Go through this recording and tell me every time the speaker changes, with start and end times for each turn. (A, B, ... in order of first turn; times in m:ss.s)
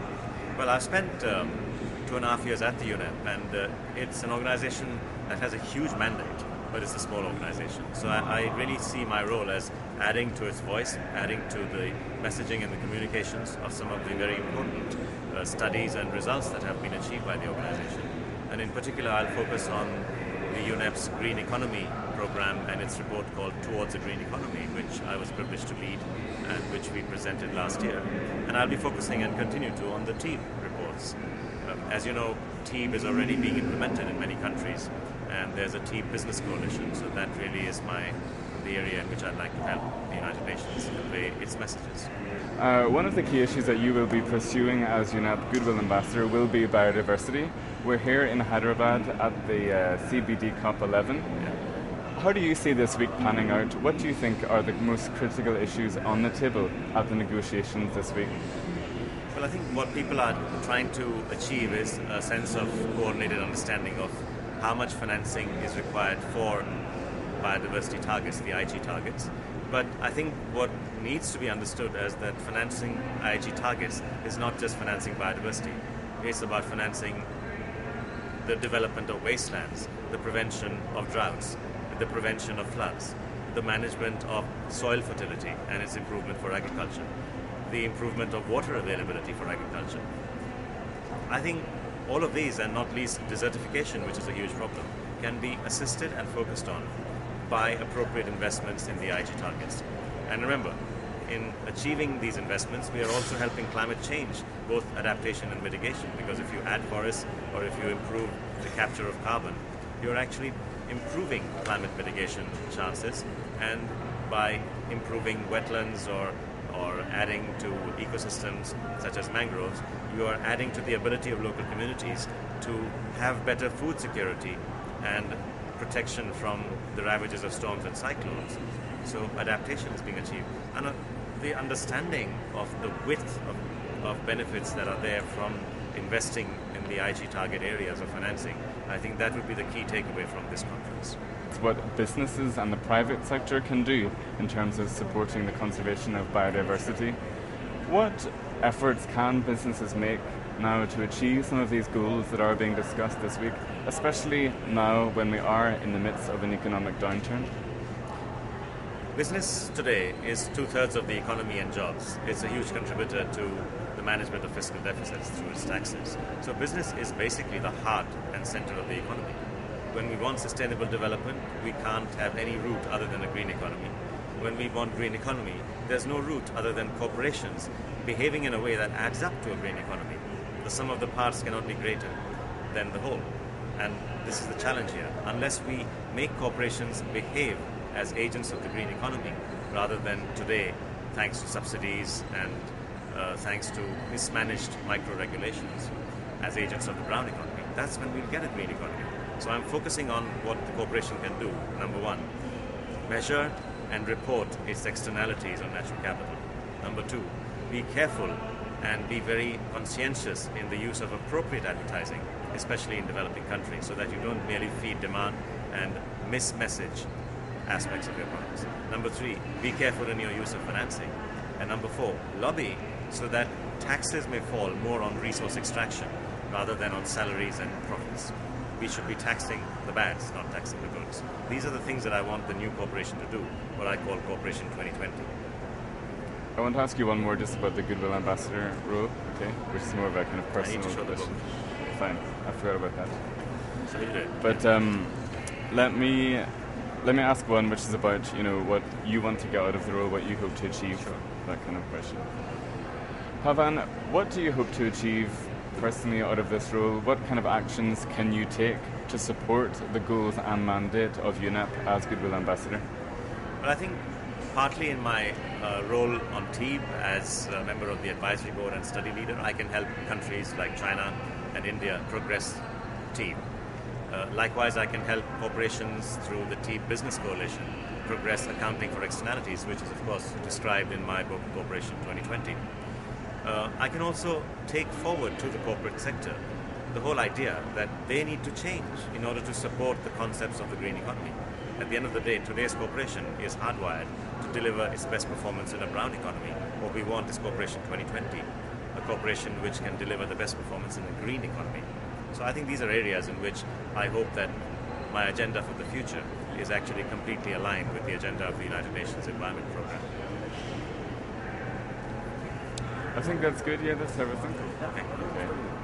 0:00.6-0:42.1 A
0:42.6-0:51.4 B
0:52.1-0:58.4 B
0:59.3-1:06.7 A
1:07.4-1:17.3 A
1:18.4-1:27.1 A
1:27.7-1:30.0 A
1:31.3-1:36.9 A
1:37.4-2:21.2 A
2:21.5-2:27.2 B
2:27.8-2:37.5 B
2:39.1-2:49.4 A
2:49.9-3:02.2 A
3:02.7-3:22.3 A
3:23.1-3:37.1 A
3:37.6-3:55.3 A
3:56.6-4:03.8 B
4:00.6-4:01.6 A
4:03.8-4:04.3 A
4:04.4-4:12.3 B
4:10.9-4:11.2 A
4:13.4-4:22.8 B
4:23.6-4:24.0 A
4:24.5-4:32.6 A
4:33.1-4:33.4 A
4:34.1-4:42.6 A
4:43.4-5:04.5 A
5:05.1-5:10.0 A
5:13.1-5:15.5 B